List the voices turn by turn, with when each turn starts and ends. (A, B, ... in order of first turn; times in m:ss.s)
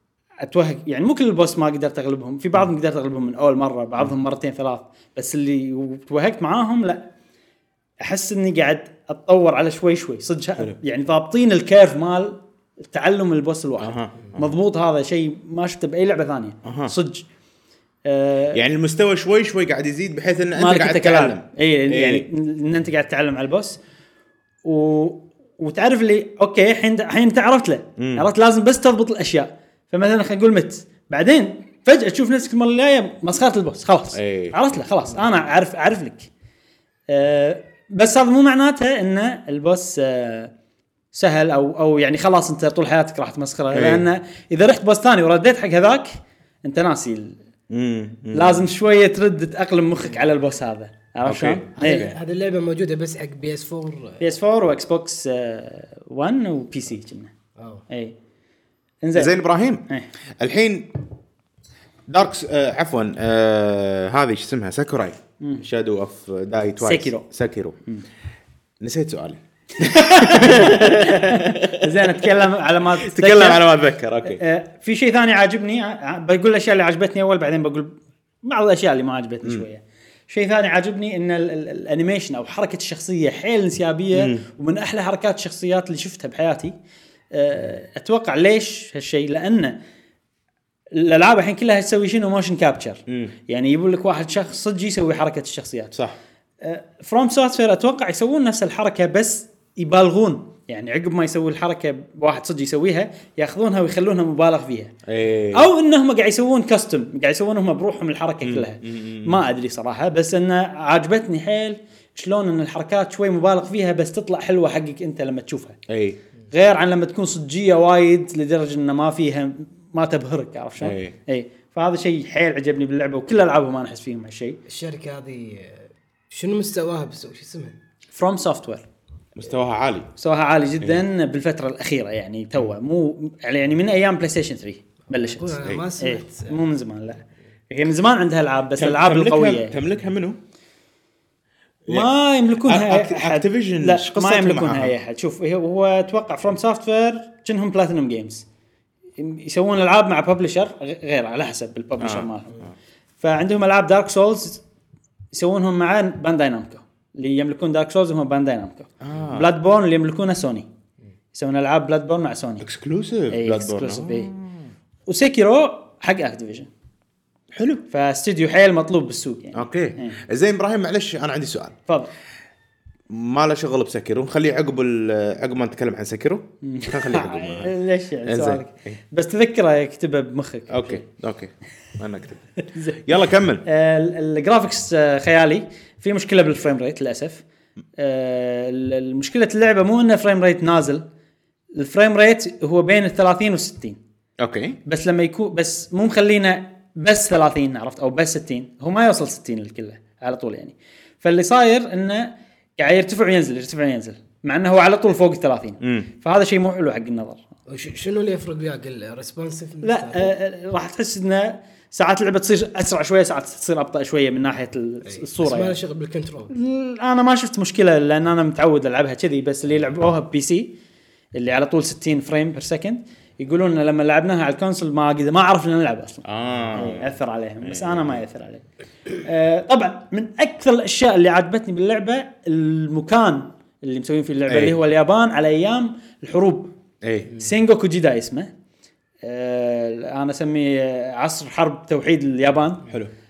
0:00.4-0:07.0 A
0:08.0-0:17.2 A
0:13.8-0:14.5 B
0:16.6-0:16.9 B
0:18.0-0:18.6 A
0:18.5-0:22.3 B
0:20.6-0:23.8 A
0:24.6-0:36.3 A
0:28.0-0:28.3 B
0:34.1-0:34.8 B
0:37.1-0:40.5 A
0:41.1-0:46.1 A
0:43.7-0:44.1 B
0:46.6-0:47.4 A
0:47.7-0:48.7 B
0:48.3-0:52.1 A
0:51.2-0:52.2 B
0:51.8-0:54.2 C
0:54.2-0:57.3 A
0:57.6-0:57.8 C
0:57.9-0:58.1 A
0:59.0-0:59.3 A
0:59.1-0:59.8 B
1:00.4-1:00.9 B
1:02.1-1:07.8 B
1:06.8-1:07.2 A
1:08.8-1:12.3 B
1:09.8-1:26.7 A
1:12.9-1:14.4 B
1:24.1-1:24.4 B
1:27.3-1:29.8 A
1:30.9-1:35.9 A
1:33.1-1:33.3 B
1:36.6-1:44.9 A
1:45.0-1:45.7 B
1:45.5-1:55.8 A
1:48.4-1:49.4 B
1:55.9-1:56.2 B
1:56.5-2:04.6 A
2:00.8-2:01.1 B
2:04.7-2:07.8 C
2:08.1-2:08.8 A
2:09.3-2:10.1 B
2:10.2-2:19.8 A
2:15.1-2:16.6 C
2:18.8-2:20.4 B
2:21.8-2:22.1 B
2:21.9-2:28.4 A
2:22.6-2:24.9 B
2:29.2-2:32.6 A
2:32.0-2:32.7 B
2:33.2-2:34.6 A
2:35.3-2:40.7 A
2:39.0-2:39.5 B
2:41.3-2:42.6 A
2:42.6-2:44.7 B
2:43.3-2:44.3 A
2:45.1-2:46.7 A
2:47.5-2:47.8 B
2:47.9-2:50.2 A
2:49.5-2:51.8 B
2:53.1-2:57.7 B
2:56.6-3:01.0 A
2:58.2-2:59.0 B
3:00.7-3:03.6 B
3:02.6-3:03.0 A
3:03.6-3:07.4 A
3:08.0-3:11.0 A
3:11.7-3:14.0 A
3:14.4-3:14.8 B
3:14.8-3:27.4 A
3:25.8-3:26.1 B
3:27.7-3:30.3 C
3:29.8-3:35.8 A
3:35.0-3:36.5 C
3:36.5-3:40.7 A
3:41.4-3:48.6 A
3:46.2-3:48.2 B
3:49.2-3:56.7 A
3:54.5-3:54.8 B
3:57.0-3:57.3 B
3:57.3-3:58.5 A
3:59.2-4:02.8 A
4:02.9-4:03.1 B